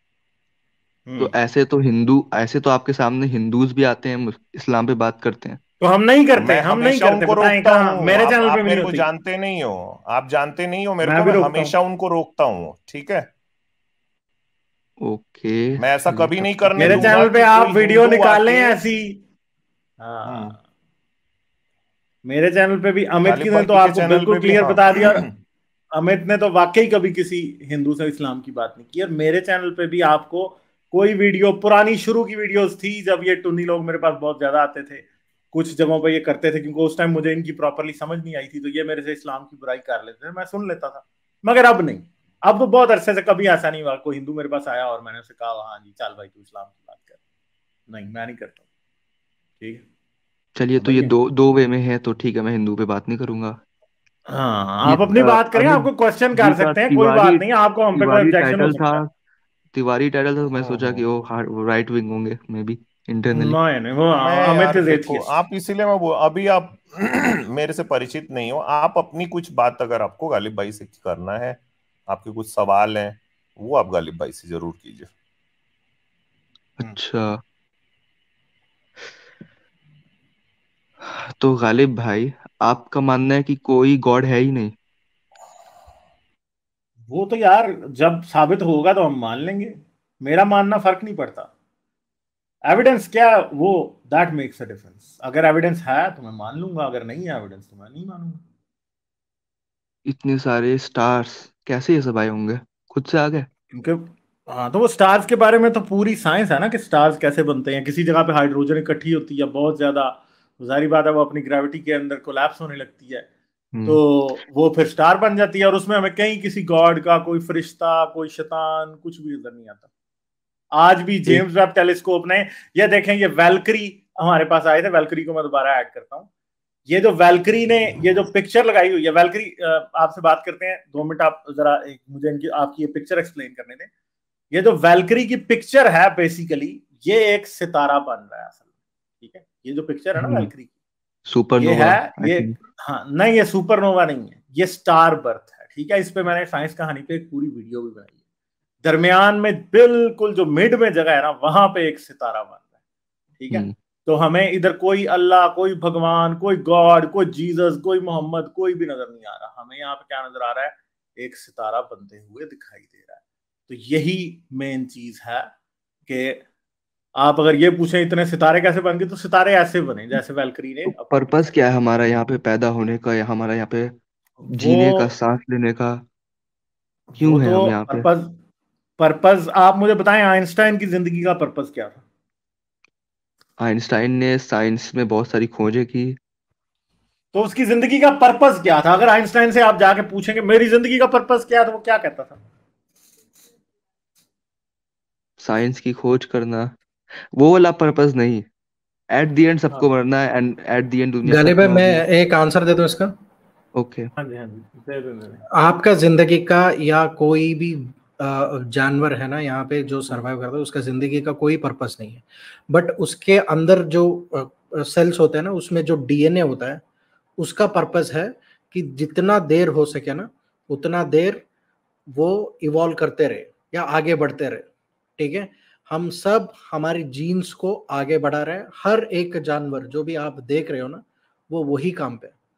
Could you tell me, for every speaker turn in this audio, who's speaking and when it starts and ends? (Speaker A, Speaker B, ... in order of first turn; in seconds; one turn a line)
Speaker A: 1.1-1.3
Speaker B: 1.2-5.6
Speaker A: 5.8-9.1
Speaker C: 6.4-13.3
Speaker A: 11.0-11.7
Speaker B: 15.0-17.1
Speaker C: 15.8-18.8
Speaker A: 16.8-19.2
Speaker A: 20.0-20.6
Speaker C: 20.3-20.6
Speaker A: 22.3-25.2
Speaker C: 23.2-25.3
Speaker A: 25.9-47.2
Speaker A: 47.9-48.6
Speaker A: 49.6-49.9
Speaker B: 50.6-53.6
Speaker A: 50.8-51.1
Speaker A: 54.3-59.0
Speaker B: 54.9-57.4
Speaker B: 57.9-59.1
Speaker B: 59.7-63.6
Speaker C: 60.6-61.0
Speaker A: 63.3-65.4
Speaker C: 64.2-75.1
Speaker B: 76.8-77.4
Speaker B: 81.4-84.7
Speaker A: 87.1-91.5
Speaker A: 92.7-98.4
Speaker B: 100.1-103.5
Speaker A: 103.7-113.3
Speaker B: 113.7-114.0
Speaker A: 113.9-119.9
Speaker A: 120.7-126.3
Speaker A: 126.9-133.9
Speaker A: 134.5-138.6
Speaker A: 139.2-140.7
Speaker B: 140.2-140.5
Speaker B: 141.3-142.5
Speaker A: 141.6-148.1
Speaker A: 148.8-152.6
Speaker A: 153.4-165.5
Speaker A: 166.1-166.4
Speaker A: 167.2-171.5
Speaker B: 170.9-173.9
Speaker A: 174.4-175.1
Speaker B: 174.5-176.0
Speaker A: 177.1-178.3
Speaker B: 177.2-178.1
Speaker A: 179.0-182.0
Speaker B: 183.6-186.2
Speaker A: 187.3-192.4
Speaker B: 195.4-196.7
Speaker B: 197.4-198.4
Speaker B: 199.1-202.0
Speaker D: 201.2-203.1
Speaker B: 203.8-204.1
Speaker A: 204.2-205.4
Speaker D: 205.6-216.8
Speaker D: 217.4-221.4
Speaker D: 222.2-224.7
Speaker D: 225.2-232.3